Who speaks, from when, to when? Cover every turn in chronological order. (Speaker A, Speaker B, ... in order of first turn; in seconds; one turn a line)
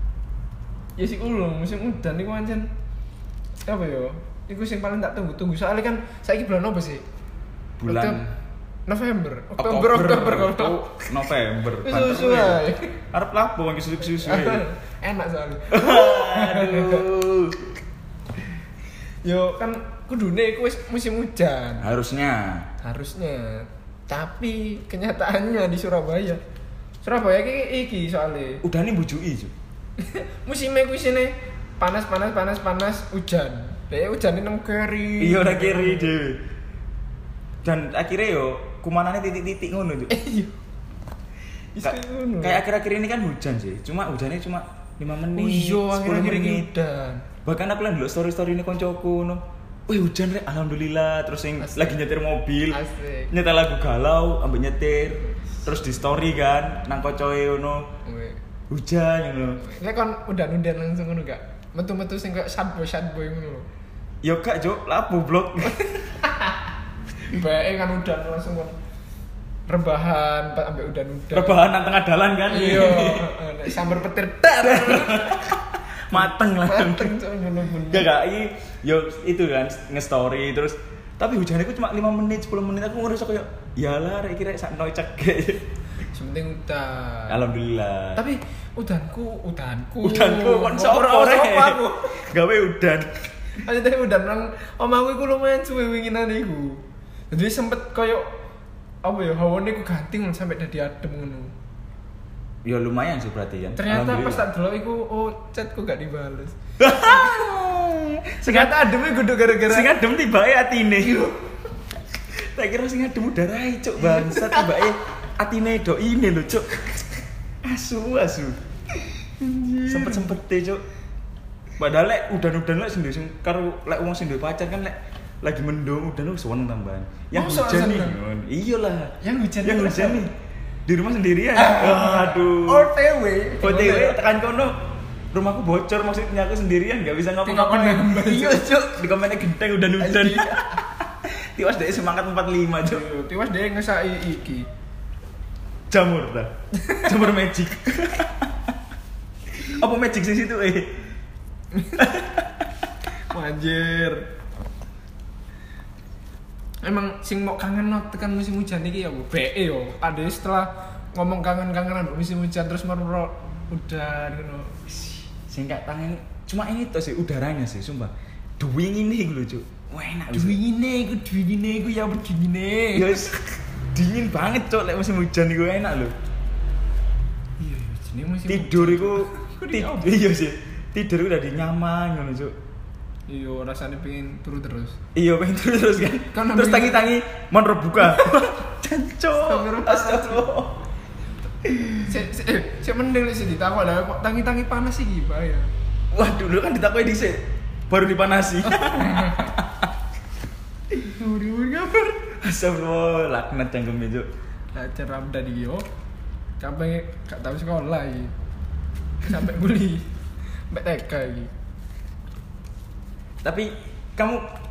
Speaker A: 1.0-2.7
Speaker A: 3.7-7.0
Speaker B: 7.8-8.3
Speaker A: 7.8-8.2
Speaker A: 8.9-11.1
Speaker B: 9.6-12.6
Speaker A: 11.8-12.9
Speaker B: 13.1-14.6
Speaker A: 14.1-17.1
Speaker B: 15.7-17.7
Speaker A: 19.2-21.9
Speaker B: 21.8-22.7
Speaker A: 22.8-26.4
Speaker A: 27.0-28.6
Speaker B: 28.6-29.5
Speaker A: 30.0-36.1
Speaker B: 35.2-36.4
Speaker B: 37.6-40.1
Speaker A: 40.1-40.6
Speaker A: 41.8-42.6
Speaker B: 41.8-46.7
Speaker A: 45.3-47.2
Speaker B: 47.5-52.8
Speaker A: 51.6-52.0
Speaker A: 52.7-53.3
Speaker B: 53.3-57.9
Speaker A: 58.0-58.4
Speaker B: 58.7-59.6
Speaker A: 59.6-63.7
Speaker B: 64.2-65.8
Speaker A: 65.7-66.7
Speaker A: 67.3-68.8
Speaker A: 69.7-71.7
Speaker B: 71.3-73.3
Speaker A: 72.5-75.4
Speaker B: 74.6-77.2
Speaker A: 76.1-78.1
Speaker B: 77.9-85.6
Speaker A: 86.1-87.4
Speaker B: 87.3-88.2
Speaker A: 88.2-92.1
Speaker B: 90.0-93.1
Speaker A: 93.6-98.3
Speaker A: 99.0-101.5
Speaker B: 102.7-104.5
Speaker A: 103.8-107.5
Speaker B: 106.8-108.8
Speaker A: 108.5-109.9
Speaker B: 109.7-111.3
Speaker A: 111.0-111.4
Speaker B: 112.4-118.6
Speaker A: 114.0-114.9
Speaker A: 119.4-120.3
Speaker B: 119.9-120.8
Speaker B: 121.8-130.3
Speaker A: 127.3-128.2
Speaker A: 129.2-130.3
Speaker B: 130.9-132.9
Speaker A: 131.5-134.2
Speaker B: 133.6-134.8
Speaker B: 135.3-143.1
Speaker A: 137.4-138.7
Speaker A: 140.0-140.7
Speaker A: 142.8-144.7
Speaker B: 145.9-146.5
Speaker B: 147.0-148.5
Speaker B: 149.6-150.9
Speaker A: 151.7-152.1
Speaker B: 152.0-152.5
Speaker A: 153.3-154.2
Speaker A: 156.8-165.2
Speaker B: 165.5-170.6
Speaker A: 170.3-173.3
Speaker B: 172.9-176.1
Speaker A: 177.6-180.1
Speaker B: 178.5-182.5
Speaker A: 183.3-185.0
Speaker B: 185.2-190.8
Speaker A: 186.2-187.1
Speaker A: 189.4-190.5
Speaker B: 191.7-192.1
Speaker A: 192.0-195.7
Speaker B: 196.1-199.9
Speaker A: 198.7-199.5
Speaker A: 201.0-202.2
Speaker B: 202.3-204.3
Speaker A: 204.7-205.8
Speaker A: 206.6-208.3
Speaker A: 209.2-210.0
Speaker A: 210.7-211.5
Speaker B: 213.4-214.4